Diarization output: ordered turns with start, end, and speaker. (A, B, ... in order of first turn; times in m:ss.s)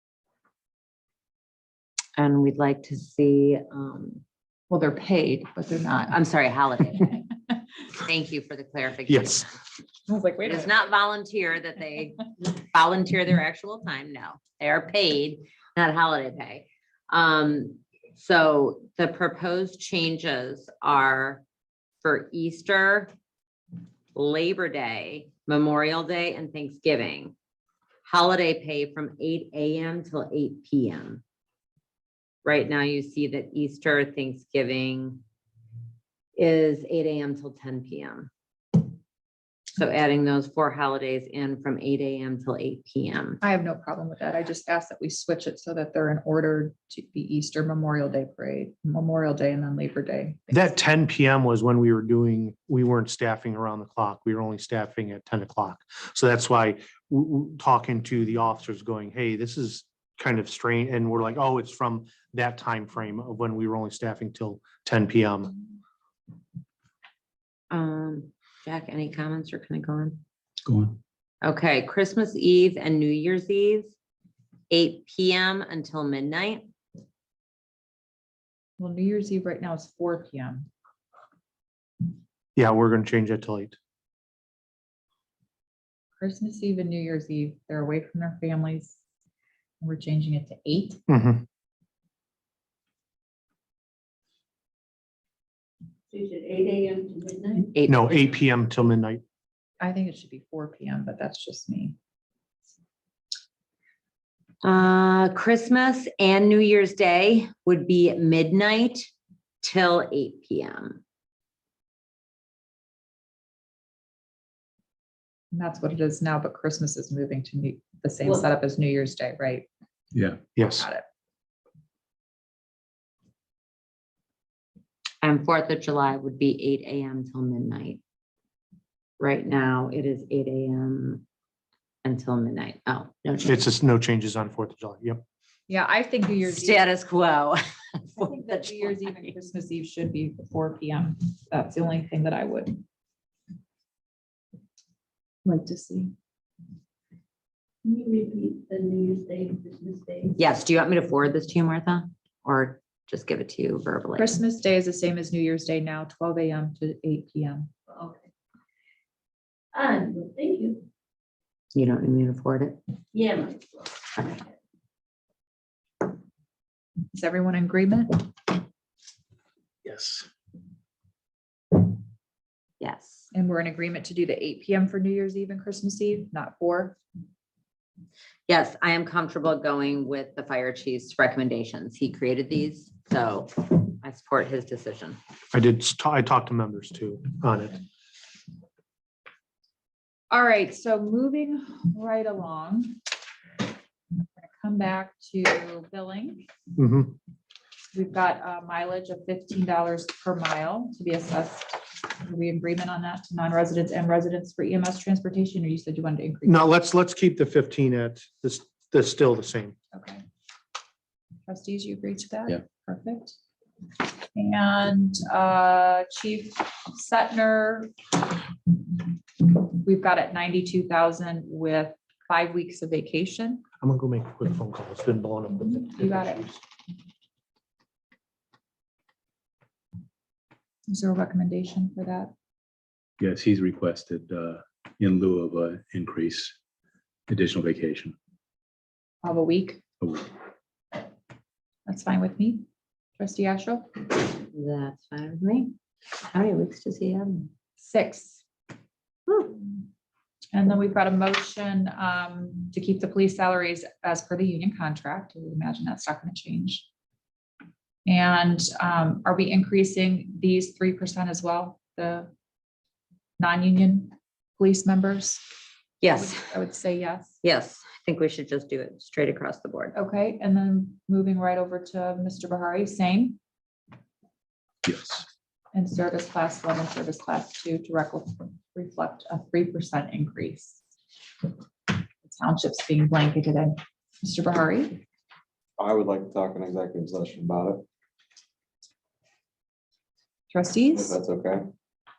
0:02.2-0:04.2 A
0:04.7-0:06.1 B
0:06.1-0:07.2 A
0:08.0-0:09.4 A
0:09.1-0:09.4 C
0:10.1-0:10.8 B
0:10.4-0:21.4 A
0:22.0-0:23.1 A
0:24.1-0:27.3 A
0:28.0-0:31.2 A
0:32.4-0:35.2 A
0:36.3-0:38.3 A
0:39.8-0:43.4 A
0:43.4-0:50.8 B
0:50.5-1:05.6 C
1:07.7-1:10.2 A
1:10.6-1:11.0 D
1:11.4-1:14.0 A
1:14.7-1:16.7 A
1:18.8-1:20.7 B
1:22.6-1:23.8 C
1:26.2-1:29.0 B
1:29.8-1:31.0 B
1:31.1-1:31.4 C
1:36.1-1:37.7 E
1:37.7-1:38.4 A
1:37.9-1:39.2 C
1:39.8-1:42.0 B
1:44.6-1:49.1 A
1:49.6-1:51.0 A
1:55.5-1:59.7 B
2:00.1-2:00.4 D
2:00.6-2:00.9 C
2:00.6-2:01.0 B
2:05.2-2:08.0 A
2:09.2-2:11.2 A
2:12.0-2:13.6 A
2:13.4-2:15.2 C
2:15.7-2:16.8 B
2:16.4-2:19.3 A
2:18.2-2:22.8 B
2:25.4-2:26.1 B
2:27.8-2:30.4 E
2:30.4-2:34.4 A
2:34.2-2:37.7 B
2:37.9-2:38.2 E
2:39.7-2:40.8 E
2:41.7-2:42.8 A
2:43.1-2:44.5 E
2:47.1-2:48.3 B
2:49.8-2:50.3 D
2:52.8-2:53.3 A
2:53.3-2:57.0 B
2:58.5-3:05.2 A
3:05.5-3:07.8 C
3:10.3-3:13.0 B
3:14.4-3:16.5 B
3:16.8-3:17.2 C
3:17.9-3:26.7 B
3:26.4-3:29.8 C
3:29.9-3:30.2 B
3:31.4-3:33.4 B
3:34.3-3:37.9 B
3:39.6-3:43.6 B
3:43.8-3:46.6 C
3:45.6-3:46.5 B
3:50.9-3:52.3 B
3:53.2-3:56.5 D
3:57.3-3:58.2 D
3:59.2-3:59.8 B
4:00.0-4:00.3 D
4:01.9-4:02.6 B
4:03.2-4:03.9 B
4:04.5-4:07.5 A
4:07.8-4:08.4 B
4:10.5-4:16.9 B
4:18.0-4:22.3 B
4:23.4-4:25.4 B
4:26.0-4:26.6 A
4:26.1-4:27.4 B
4:27.4-4:30.0 A
4:29.9-4:33.4 B
4:34.8-4:35.2 D
4:35.7-4:40.8 B
4:42.2-4:45.0 B
4:45.8-4:47.8 F
4:50.5-4:51.2 B
4:50.9-4:51.6 F